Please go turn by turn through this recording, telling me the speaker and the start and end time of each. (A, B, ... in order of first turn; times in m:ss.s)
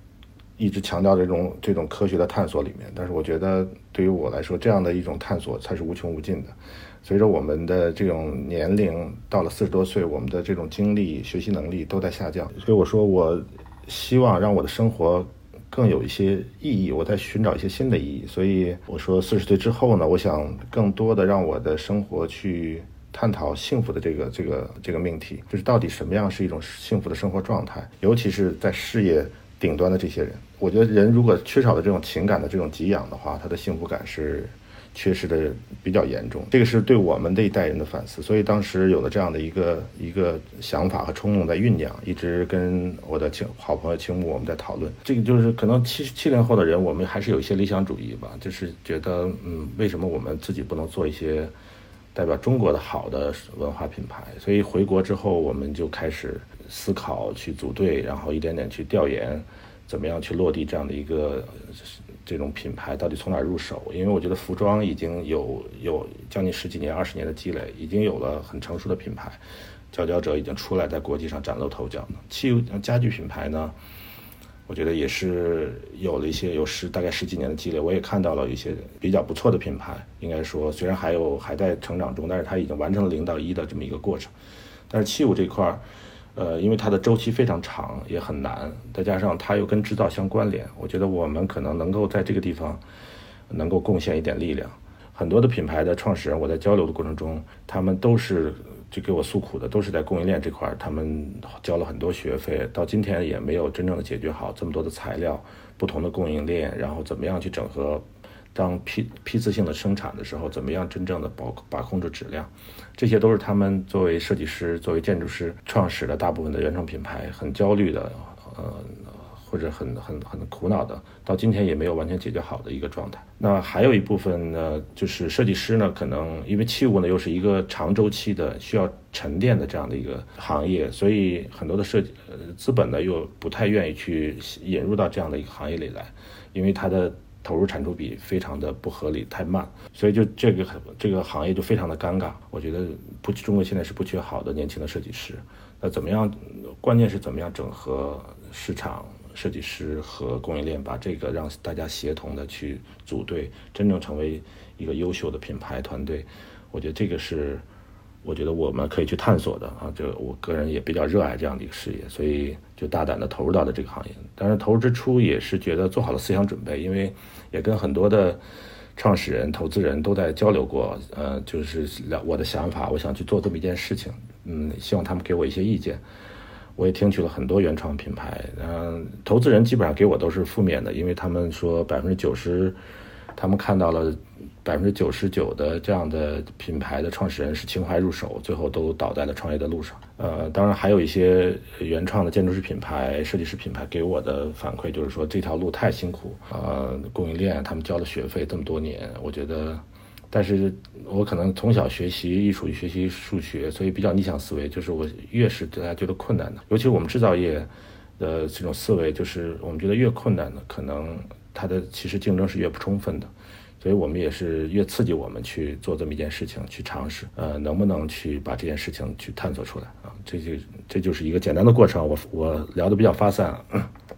0:00.6-0:51.5 A
0:52.1-1:09.4 A
1:09.9-1:13.8 A
1:14.7-1:24.3 A
1:24.9-1:25.8 A
1:26.3-1:32.8 A
1:33.5-2:37.6 A
2:38.2-2:48.4 A
2:49.0-2:56.0 A
2:56.8-3:02.8 A
3:03.4-3:43.9 A